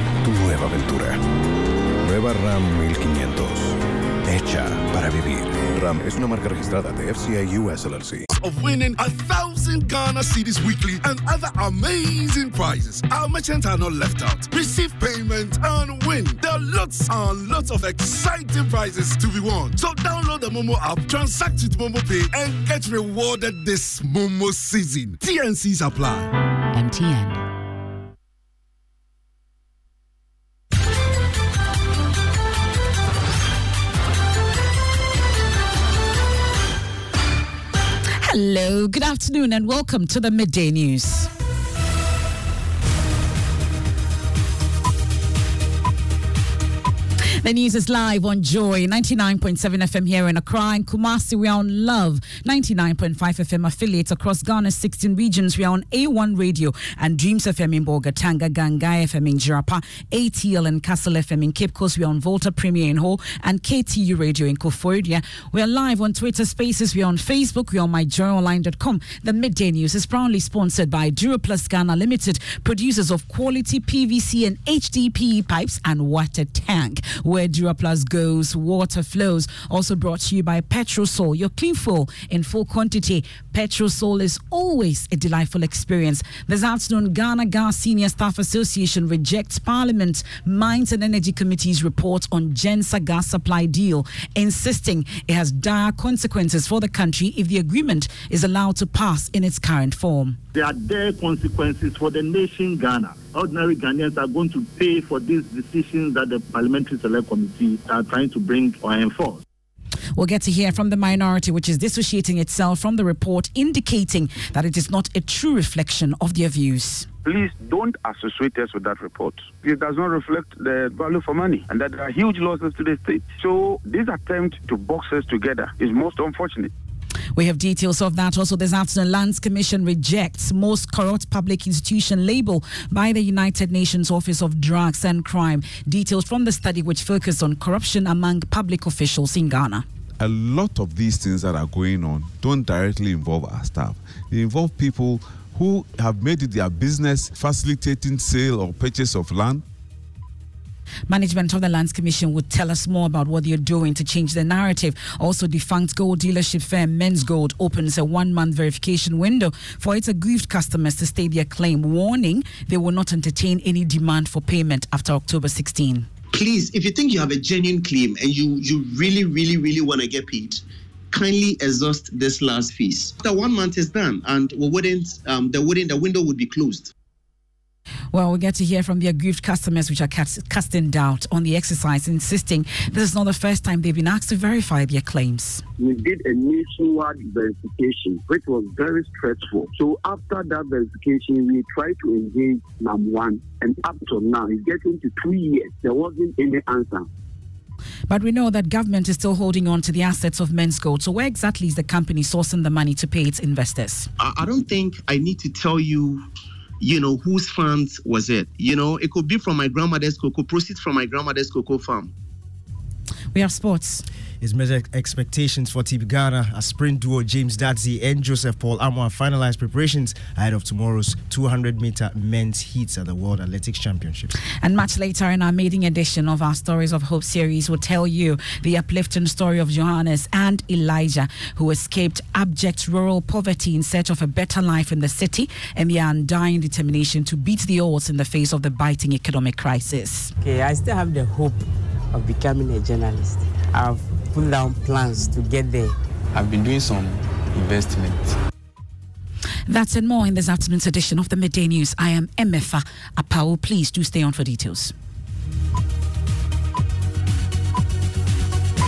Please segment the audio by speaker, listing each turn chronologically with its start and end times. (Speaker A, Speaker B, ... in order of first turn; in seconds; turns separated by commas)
Speaker A: 0.2-1.2, Speaker A: 2.0-8.3, Speaker B: 8.3-26.3, Speaker C: 26.7-27.5, Speaker C: 38.2-41.3, Speaker C: 47.4-100.4, Speaker D: 100.5-109.4, Speaker C: 110.2-117.1, Speaker E: 117.2-126.7, Speaker C: 127.3-139.8, Speaker F: 140.2-149.6, Speaker C: 151.1-166.1, Speaker G: 166.3-176.9, Speaker C: 178.1-185.6, Speaker H: 185.8-197.1, Speaker C: 198.1-204.1, Speaker G: 204.2-206.3, Speaker G: 206.8-212.1, Speaker C: 213.3-214.0, Speaker I: 214.4-224.3, Speaker C: 224.6-240.3, Speaker J: 240.4-245.9, Speaker K: 246.3-248.4, Speaker C: 249.7-254.9